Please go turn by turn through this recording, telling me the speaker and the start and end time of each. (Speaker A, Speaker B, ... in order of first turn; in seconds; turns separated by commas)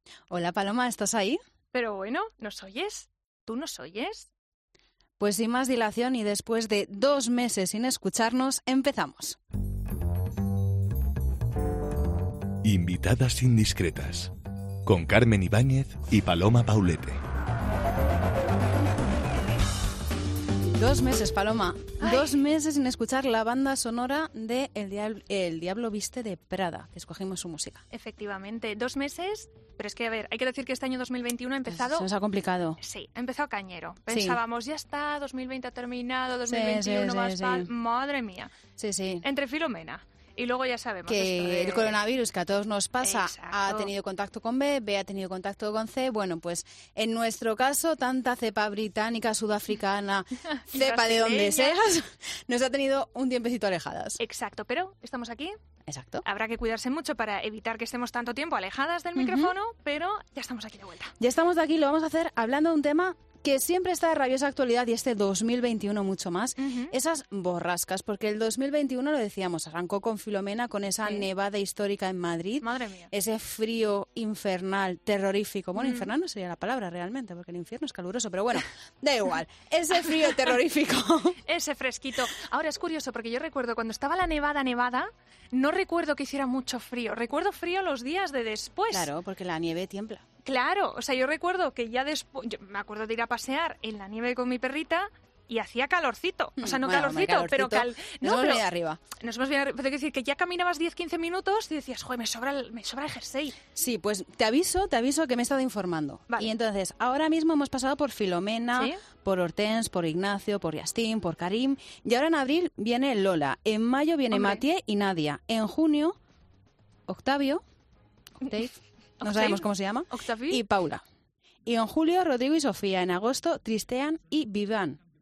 Speaker A: 0.3-1.4, Speaker B: 1.7-4.3, Speaker A: 5.2-9.4, Speaker C: 12.6-14.3, Speaker C: 14.8-17.2, Speaker A: 20.7-27.8, Speaker B: 22.0-22.3, Speaker B: 27.9-32.1, Speaker A: 31.7-32.8, Speaker B: 32.8-38.5, Speaker A: 34.1-34.4, Speaker A: 36.5-37.7, Speaker A: 38.8-39.2, Speaker B: 39.2-42.0, Speaker A: 41.1-54.2, Speaker B: 43.0-43.9, Speaker B: 50.7-51.8, Speaker B: 54.2-55.5, Speaker A: 55.9-56.2, Speaker B: 56.2-61.1, Speaker A: 59.1-59.5, Speaker A: 61.2-81.4, Speaker B: 66.6-66.9, Speaker B: 72.6-73.1, Speaker B: 75.8-76.1, Speaker B: 81.5-89.1, Speaker A: 88.9-90.2, Speaker B: 90.4-98.6, Speaker A: 96.6-99.0, Speaker B: 99.2-103.6, Speaker A: 103.8-116.2, Speaker B: 108.8-109.0, Speaker B: 114.3-114.6, Speaker A: 117.1-117.6, Speaker A: 118.4-121.0, Speaker B: 119.2-120.6, Speaker A: 121.7-125.0